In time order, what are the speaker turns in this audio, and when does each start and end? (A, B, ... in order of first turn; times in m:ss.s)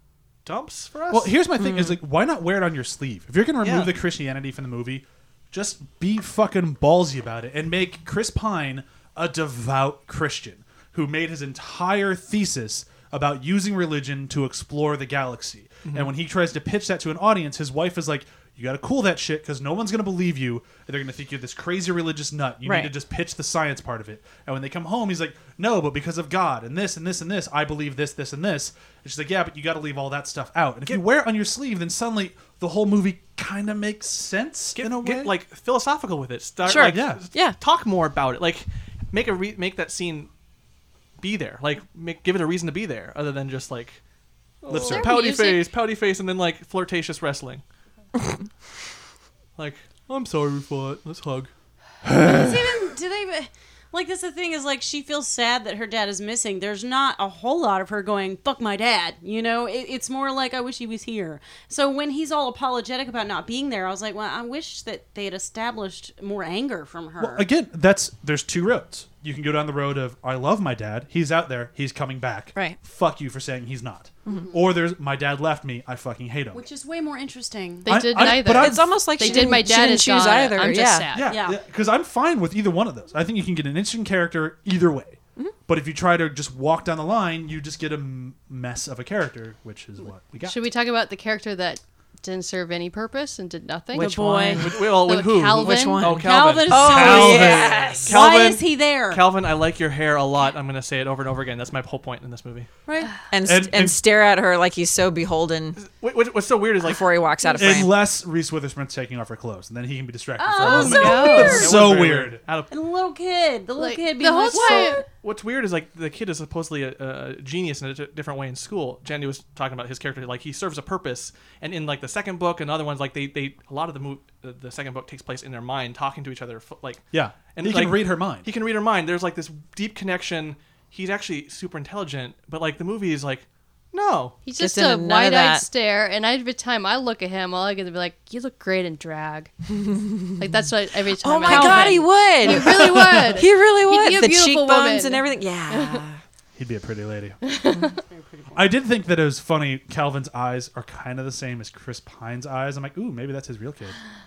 0:00.4-0:01.3 A
0:01.1-0:35.3 B
0:01.6-0:02.0 C
0:03.6-0:03.9 A
0:15.8-0:16.1 A
0:22.6-0:22.9 C
0:34.7-0:40.3 A
0:36.6-0:37.6 C
0:36.9-0:37.2 B
0:41.2-0:44.0 A
0:44.6-0:47.6 A
0:44.7-0:45.1 B
0:44.7-0:45.7 D
0:49.6-0:51.5 A
0:52.2-1:07.4 E
1:07.2-1:16.6 B
1:14.2-1:14.6 E
1:16.5-1:17.9 E
1:17.8-1:21.4 D
1:17.9-1:19.0 B
1:18.4-1:21.1 C
1:19.2-1:19.5 E
1:21.1-1:30.6 B
1:21.2-1:21.6 E
1:30.4-1:34.1 D
1:33.9-1:35.0 C
1:34.0-1:34.8 E
1:34.6-1:37.4 A
1:35.0-1:36.0 D
1:35.6-1:38.2 C
1:36.1-1:39.2 E
1:36.7-1:38.1 B
1:38.0-1:42.7 A
1:42.8-1:43.1 E
1:43.3-1:45.8 C
1:43.4-1:44.0 B
1:45.8-1:47.1 A
1:46.8-1:47.9 C
1:47.6-1:52.4 B
1:50.4-1:51.8 E
1:50.6-1:51.7 D
1:50.8-1:52.7 A
1:52.7-1:55.0 E
1:53.8-1:55.0 D
1:54.5-2:14.4 A
2:07.1-2:08.5 B
2:14.4-2:19.5 D
2:14.6-2:15.6 C
2:20.3-2:26.0 D
2:21.2-2:26.2 C
2:21.4-2:22.1 E
2:22.4-2:23.4 B
2:26.6-2:27.4 B
2:27.4-2:28.0 D
2:27.9-2:28.6 E
2:28.5-2:34.0 B